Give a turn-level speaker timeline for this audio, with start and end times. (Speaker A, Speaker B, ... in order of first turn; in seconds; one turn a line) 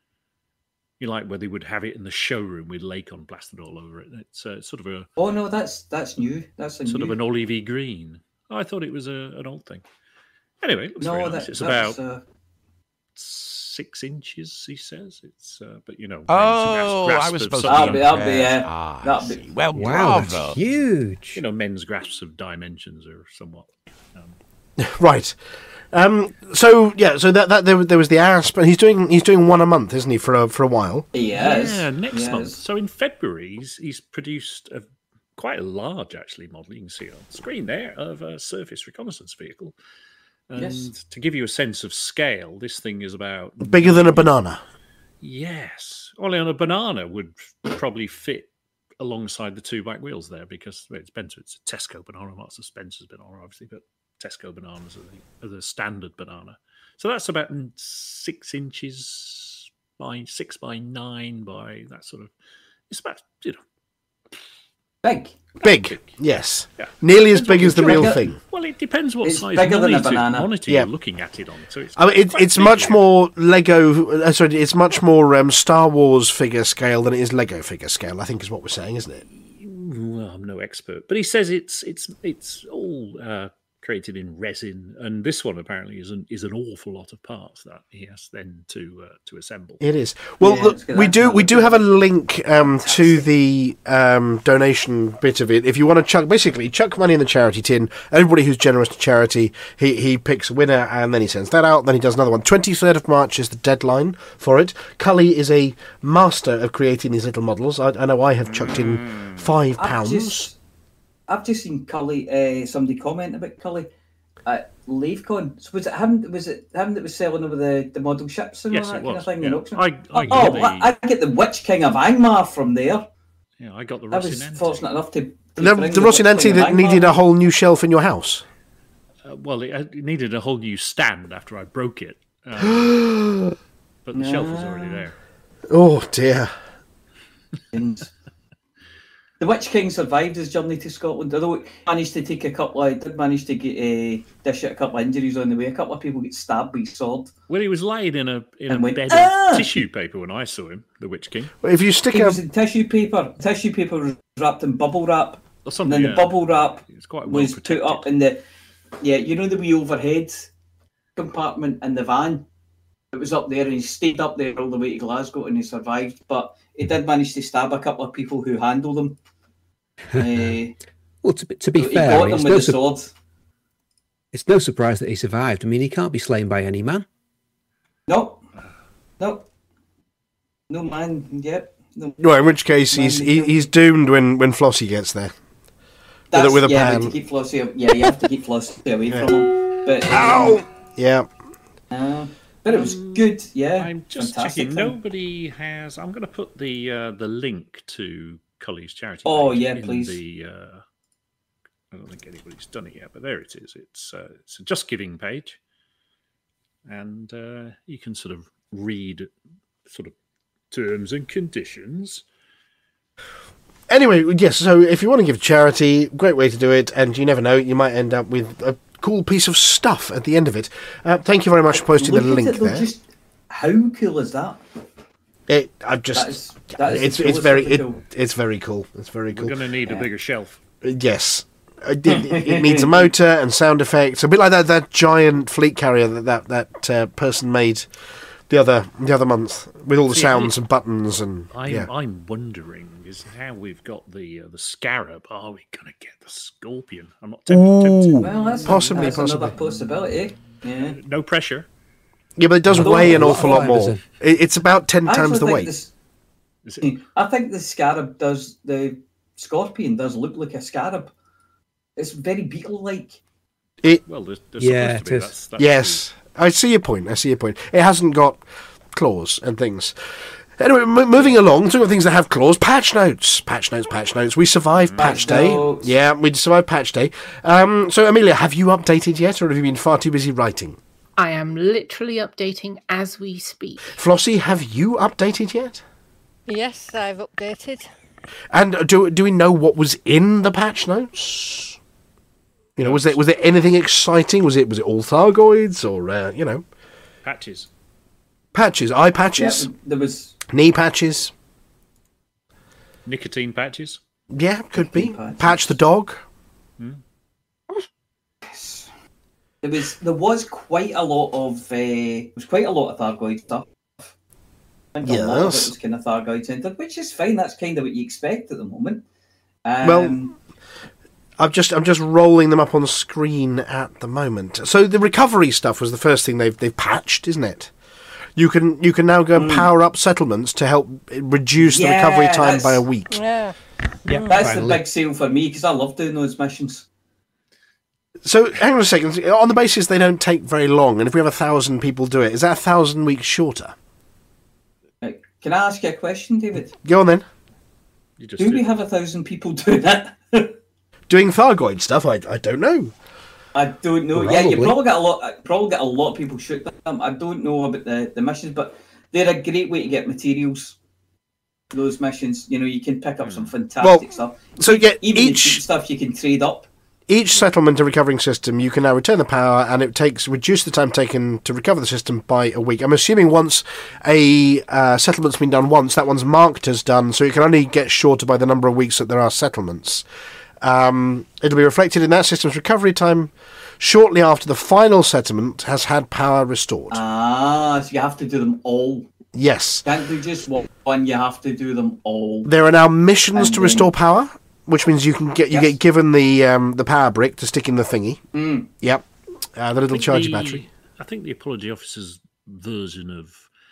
Speaker A: 1.0-5.1
Speaker B: 5.2-7.2
Speaker A: 6.8-9.8
Speaker A: 10.6-12.0
Speaker B: 11.0-12.2
Speaker A: 13.1-18.1
Speaker C: 16.3-20.6
Speaker B: 17.6-19.4
Speaker D: 19.7-21.4
Speaker A: 21.3-24.4
Speaker E: 24.8-25.4
Speaker E: 25.9-31.1
Speaker B: 31.1-32.6
Speaker A: 31.3-39.8
Speaker A: 40.5-44.3
Speaker B: 40.5-40.9
Speaker E: 43.6-44.6
Speaker A: 45.2-62.3
Speaker A: 62.9-63.6
Speaker B: 65.0-65.4
Speaker E: 65.6-68.4
Speaker A: 66.8-73.0
Speaker B: 67.7-68.3
Speaker B: 69.2-70.5
Speaker E: 72.0-79.2
Speaker A: 79.3-89.8
Speaker E: 89.8-110.5
Speaker B: 90.4-91.9
Speaker B: 92.6-93.2
Speaker B: 109.8-110.5
Speaker B: 111.3-113.9
Speaker B: 114.4-123.0
Speaker A: 118.7-121.0
Speaker A: 123.6-124.9
Speaker B: 124.1-127.2
Speaker E: 125.6-128.4
Speaker A: 129.2-133.0
Speaker E: 132.6-133.5
Speaker A: 134.0-135.2
Speaker B: 134.1-135.1
Speaker E: 135.7-136.5
Speaker B: 137.7-138.1
Speaker B: 139.4-147.3
Speaker A: 147.5-151.5
Speaker B: 148.7-149.7
Speaker E: 151.6-152.4
Speaker B: 152.1-158.4
Speaker A: 155.6-158.1
Speaker B: 159.0-160.5
Speaker B: 161.2-162.4
Speaker B: 163.1-169.2
Speaker B: 170.2-170.7
Speaker D: 170.2-170.5
Speaker D: 171.2-172.8
Speaker B: 171.8-173.1
Speaker D: 174.3-177.1
Speaker B: 178.1-178.4
Speaker B: 179.2-179.4
Speaker B: 180.7-182.2
Speaker E: 182.2-185.3
Speaker B: 182.9-183.7
Speaker B: 186.3-190.6
Speaker E: 186.3-187.1
Speaker E: 190.1-191.3
Speaker B: 191.9-195.0
Speaker A: 192.7-200.8
Speaker B: 199.2-200.2
Speaker A: 201.9-205.6
Speaker A: 206.8-209.3
Speaker A: 209.8-210.1
Speaker A: 210.7-212.2
Speaker E: 213.9-222.9
Speaker B: 221.9-224.6
Speaker E: 225.5-229.6
Speaker B: 226.1-228.0
Speaker A: 229.3-230.6
Speaker E: 230.8-237.9
Speaker B: 232.1-233.1
Speaker E: 238.5-241.9
Speaker A: 240.1-240.6
Speaker A: 241.5-249.1
Speaker E: 247.5-249.6
Speaker B: 248.2-251.0
Speaker A: 250.4-251.7
Speaker E: 252.4-255.7
Speaker D: 252.7-254.0
Speaker B: 252.8-253.7
Speaker B: 255.0-255.9
Speaker A: 256.6-257.0
Speaker B: 256.8-261.1
Speaker B: 262.0-263.2
Speaker A: 264.1-266.0
Speaker D: 264.6-265.3
Speaker E: 265.6-270.0
Speaker E: 270.6-280.8
Speaker A: 274.8-275.3
Speaker B: 275.0-275.9
Speaker F: 281.2-284.0
Speaker E: 284.0-285.8
Speaker G: 286.5-287.9
Speaker E: 288.5-291.8
Speaker E: 292.8-296.6
Speaker A: 292.8-293.1
Speaker A: 297.2-297.7
Speaker E: 298.5-299.7
Speaker B: 299.4-300.4
Speaker E: 300.5-301.3
Speaker A: 303.0-304.0
Speaker E: 304.3-306.2
Speaker B: 304.8-305.7
Speaker B: 308.4-308.9
Speaker B: 309.6-314.1
Speaker B: 314.9-319.0
Speaker E: 315.0-315.7
Speaker B: 319.6-320.3
Speaker E: 319.8-320.2
Speaker E: 321.4-327.7
Speaker E: 328.4-333.2
Speaker B: 329.3-329.7
Speaker B: 331.6-332.8
Speaker G: 333.1-333.5
Speaker D: 334.1-334.8
Speaker G: 334.1-334.4
Speaker B: 334.3-336.9
Speaker E: 338.2-343.7
Speaker B: 345.0-346.7
Speaker E: 346.8-347.2
Speaker A: 348.2-348.7
Speaker B: 348.4-350.6
Speaker E: 351.1-352.9
Speaker B: 353.5-360.8
Speaker D: 354.1-354.8
Speaker B: 361.7-366.7
Speaker A: 363.2-363.5
Speaker E: 363.8-364.1
Speaker E: 364.6-365.6
Speaker E: 367.1-380.0
Speaker E: 380.6-387.0
Speaker B: 386.9-389.1
Speaker E: 389.3-389.9
Speaker B: 389.8-392.5
Speaker E: 392.4-398.2
Speaker B: 393.3-393.9
Speaker B: 395.5-395.8
Speaker B: 398.3-398.7
Speaker E: 398.8-400.7
Speaker A: 399.9-403.5